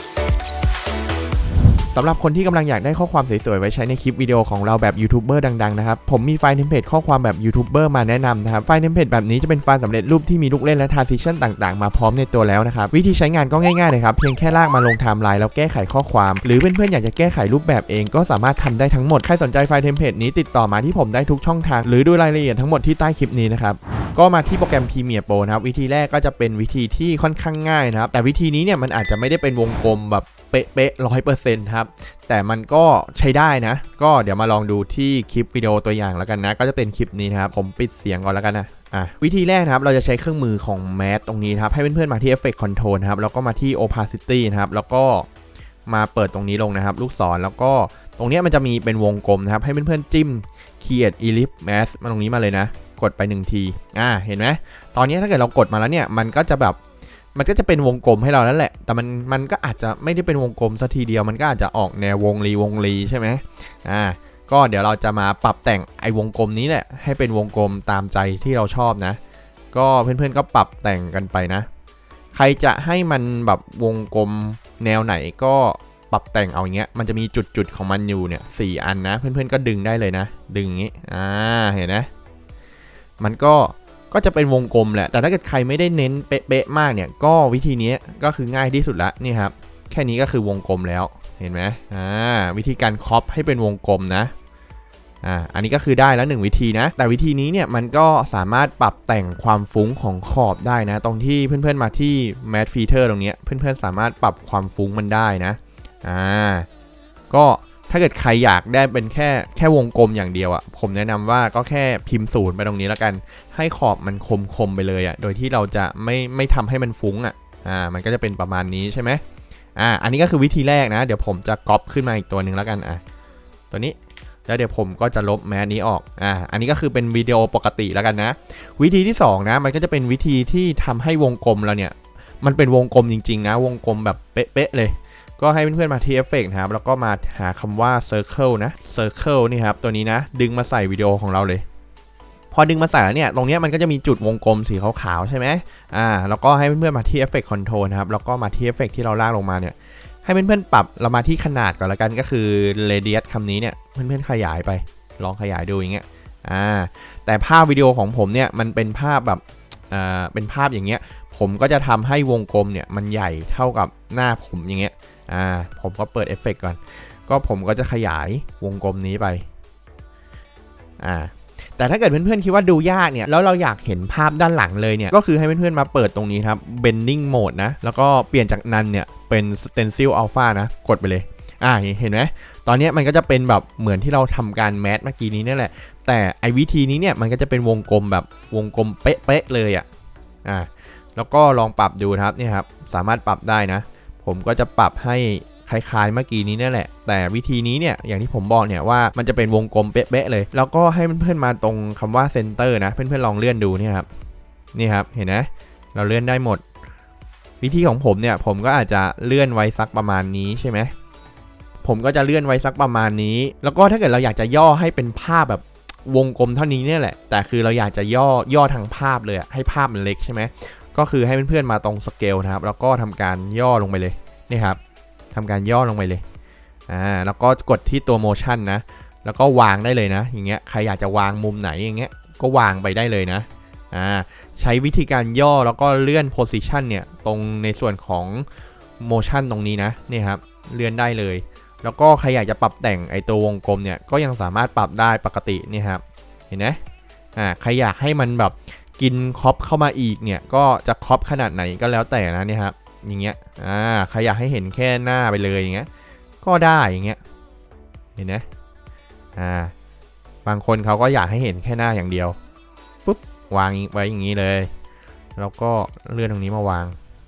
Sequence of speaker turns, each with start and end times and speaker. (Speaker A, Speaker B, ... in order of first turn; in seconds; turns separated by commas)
Speaker A: 1.9-45.3, Speaker A: 45.9-56.8, Speaker A: 57.4-69.2, Speaker A: 69.7-71.7, Speaker A: 72.3-82.1, Speaker A: 83.2-94.3, Speaker A: 95.2-106.7, Speaker A: 107.3-119.2, Speaker A: 119.8-123.0, Speaker A: 123.7-141.6, Speaker A: 142.5-169.4, Speaker A: 171.0-189.9, Speaker A: 190.4-204.1, Speaker A: 204.7-206.6, Speaker A: 207.6-210.9, Speaker A: 211.8-224.8, Speaker A: 225.3-226.2, Speaker A: 226.9-238.5, Speaker A: 239.0-246.8, Speaker A: 247.4-255.9, Speaker A: 256.4-257.2, Speaker A: 258.2-258.4, Speaker A: 259.4-259.7, Speaker A: 260.4-262.4, Speaker A: 263.1-264.7, Speaker A: 265.4-267.0